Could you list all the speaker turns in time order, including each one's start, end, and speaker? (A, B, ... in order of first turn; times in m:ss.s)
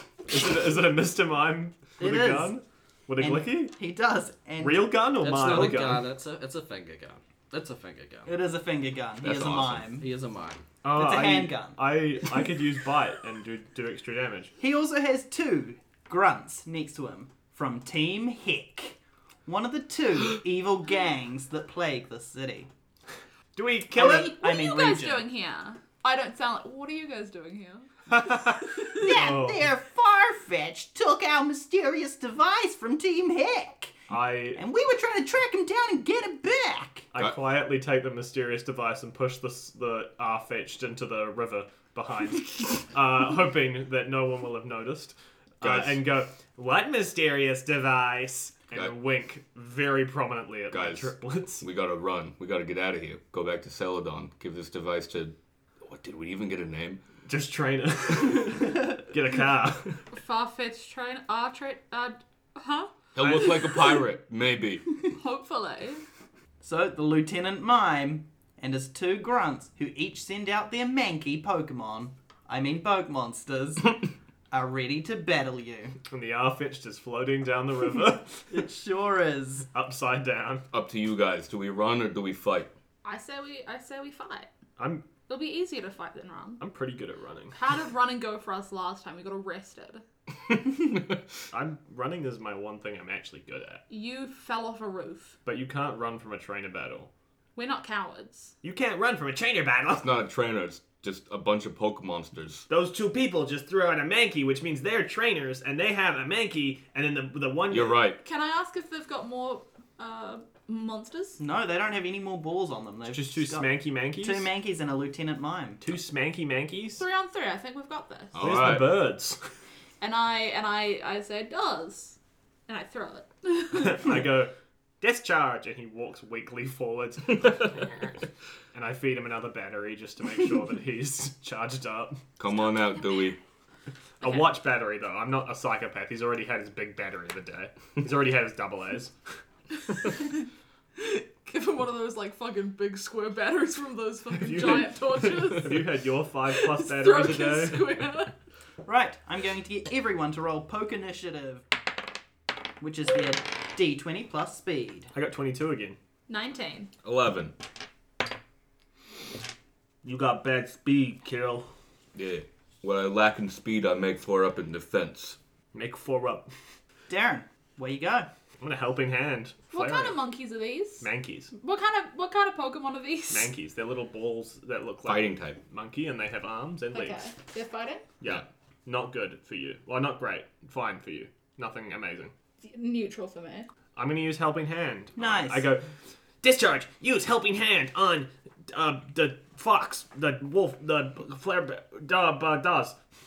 0:00.3-0:03.7 A
0:02.0-0:02.6 B
0:03.2-0:05.0 B
0:04.6-0:06.0 A
0:05.2-0:08.3 C
0:08.2-0:10.1 B
0:09.2-0:09.8 D
0:09.9-0:10.6 C
0:10.8-0:14.5 A
0:10.9-0:12.0 B
0:14.6-0:22.7 B
0:23.5-0:24.4 A
0:23.9-0:25.2 B
0:24.0-0:27.9 E
0:28.1-0:29.6 A
0:28.8-0:34.0 B
0:34.1-0:34.6 A
0:34.5-0:37.1 B
0:37.1-0:51.6 A
0:45.6-0:46.0 D
0:50.7-0:57.0 D
0:57.3-1:00.0 A
1:00.1-1:04.0 E
1:03.2-1:05.0 D
1:05.1-1:06.0 E
1:06.6-1:16.0 B
1:16.1-1:18.5 A
1:18.5-1:19.7 B
1:19.7-1:20.6 A
1:20.7-1:22.7 D
1:23.0-1:24.5 E
1:24.8-1:25.0 A
1:25.3-1:26.6 E
1:26.6-1:27.6 A
1:27.5-1:30.0 E
1:30.5-1:31.2 D
1:31.5-1:33.8 A
1:33.9-1:35.4 E
1:35.4-1:37.1 A
1:37.6-1:38.5 E
1:38.6-1:40.1 A
1:40.0-1:42.6 D
1:42.7-1:48.0 A
1:47.7-1:48.2 D
1:48.2-1:51.4 E
1:51.4-1:53.7 B
1:53.1-1:54.5 A
1:54.2-1:55.8 B
1:55.8-1:57.0 A
1:57.0-1:58.4 E
1:58.3-1:58.9 D
1:58.4-1:59.4 A
2:00.0-2:04.1 E
2:03.7-2:07.9 A
2:08.7-2:12.2 A
2:12.4-2:13.4 D
2:12.7-2:13.0 E
2:14.2-2:19.1 A
2:14.2-2:14.5 E
2:19.9-2:20.4 E
2:21.0-2:25.9 E
2:24.3-2:28.0 A
2:26.5-2:28.3 E
2:28.8-2:31.6 B
2:32.8-2:35.1 B
2:35.1-2:36.0 A
2:36.3-2:36.9 E
2:37.0-2:37.5 D
2:40.0-2:41.7 A
2:42.1-2:45.4 D
2:45.7-2:46.5 A
2:47.1-2:48.3 B
2:48.6-2:50.2 A
2:49.7-2:53.5 E
2:51.0-2:51.5 A
2:53.3-2:57.3 A
2:55.0-2:55.6 D
2:56.9-2:58.0 E
2:58.2-3:02.3 A
3:02.6-3:03.7 E
3:04.0-3:05.8 A
3:05.2-3:05.7 B
3:06.4-3:12.9 A